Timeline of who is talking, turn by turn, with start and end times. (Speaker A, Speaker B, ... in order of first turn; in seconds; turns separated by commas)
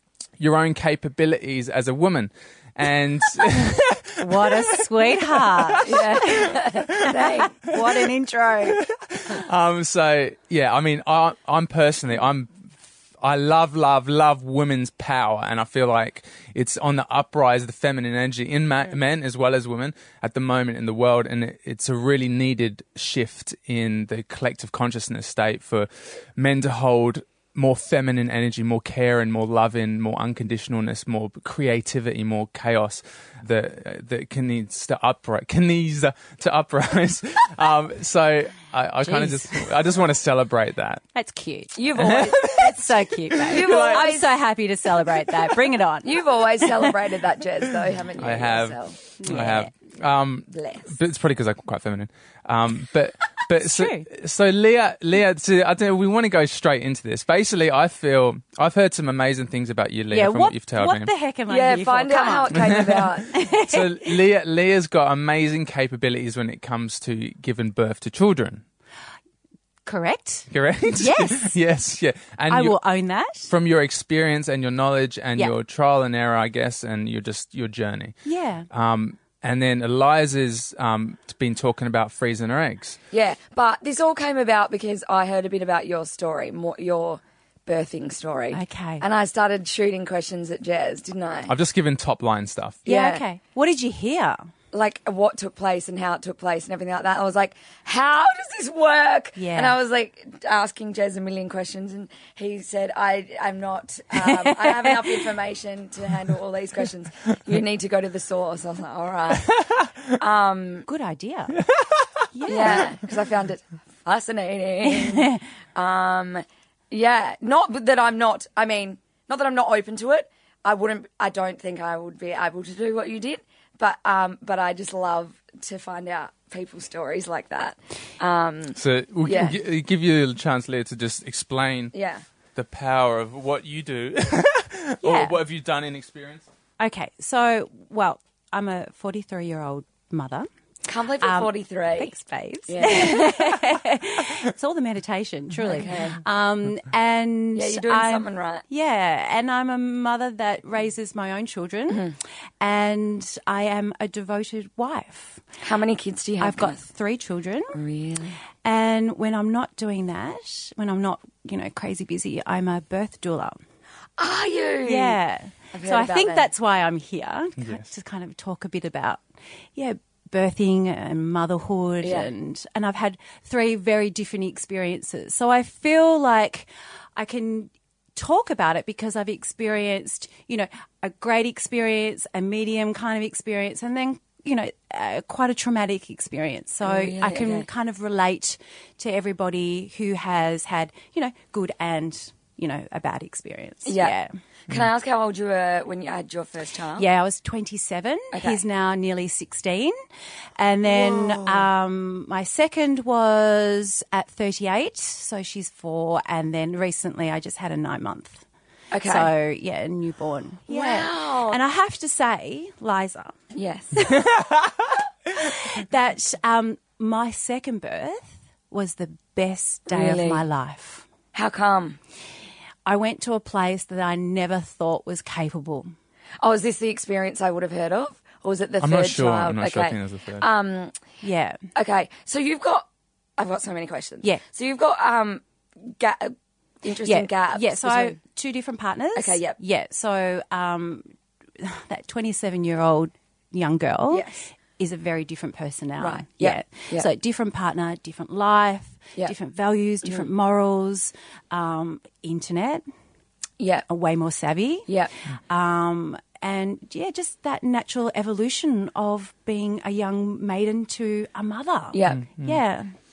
Speaker A: 0.4-7.1, Speaker B: 4.2-8.8, Speaker C: 5.8-7.6, Speaker A: 8.6-12.7, Speaker A: 13.2-41.0, Speaker B: 39.0-39.7, Speaker B: 41.1-46.9, Speaker C: 41.8-42.7, Speaker A: 41.9-42.8, Speaker A: 43.3-44.1, Speaker C: 43.4-44.3, Speaker C: 46.0-49.0, Speaker A: 48.2-61.1, Speaker B: 49.2-49.7, Speaker C: 50.5-50.9, Speaker B: 53.5-54.1, Speaker B: 60.1-64.1, Speaker C: 61.5-63.3, Speaker A: 62.5-68.6, Speaker B: 69.8-71.6, Speaker A: 70.5-72.8, Speaker B: 72.5-73.5, Speaker A: 73.5-78.2, Speaker B: 78.2-78.7, Speaker A: 78.7-83.0, Speaker C: 83.1-91.5, Speaker B: 88.5-89.0, Speaker A: 91.5-92.8, Speaker C: 92.8-93.2, Speaker B: 92.8-94.5, Speaker C: 94.7-110.8, Speaker B: 99.4-99.8, Speaker B: 104.3-104.9, Speaker A: 109.5-109.8, Speaker B: 110.9-111.6, Speaker A: 111.7-112.0, Speaker B: 112.3-112.9, Speaker C: 112.5-129.6, Speaker B: 114.8-115.4, Speaker A: 128.7-131.9, Speaker C: 131.9-132.2, Speaker A: 132.5-136.5, Speaker B: 135.0-135.4, Speaker B: 136.8-140.5, Speaker C: 140.9-142.1, Speaker B: 141.2-155.4, Speaker C: 142.7-143.3, Speaker C: 145.7-146.2, Speaker C: 147.5-148.6, Speaker C: 155.6-156.8, Speaker B: 156.4-157.8, Speaker C: 157.7-158.4, Speaker B: 158.6-163.6, Speaker C: 164.2-165.2, Speaker B: 164.8-169.2, Speaker C: 165.7-166.5, Speaker A: 167.6-167.9, Speaker B: 169.7-194.3, Speaker C: 172.0-172.3, Speaker C: 186.8-187.7, Speaker C: 193.8-194.1, Speaker C: 194.7-197.1, Speaker B: 197.0-199.9, Speaker C: 198.3-198.6, Speaker B: 200.6-208.4, Speaker C: 200.8-201.6, Speaker C: 208.9-209.3, Speaker B: 209.0-213.3, Speaker C: 210.7-211.6, Speaker C: 213.5-214.0, Speaker B: 213.9-214.5, Speaker B: 215.3-221.1, Speaker C: 219.9-220.4, Speaker C: 221.3-222.0, Speaker B: 222.8-225.9, Speaker C: 226.4-230.9, Speaker A: 228.8-230.4, Speaker B: 231.2-231.6, Speaker C: 231.7-232.8, Speaker C: 233.4-238.2, Speaker B: 237.0-241.1, Speaker C: 239.2-239.6, Speaker B: 241.6-252.8, Speaker C: 244.1-244.4, Speaker C: 246.0-247.1, Speaker C: 253.6-253.8, Speaker B: 253.9-262.9, Speaker C: 261.9-262.2, Speaker A: 262.1-262.6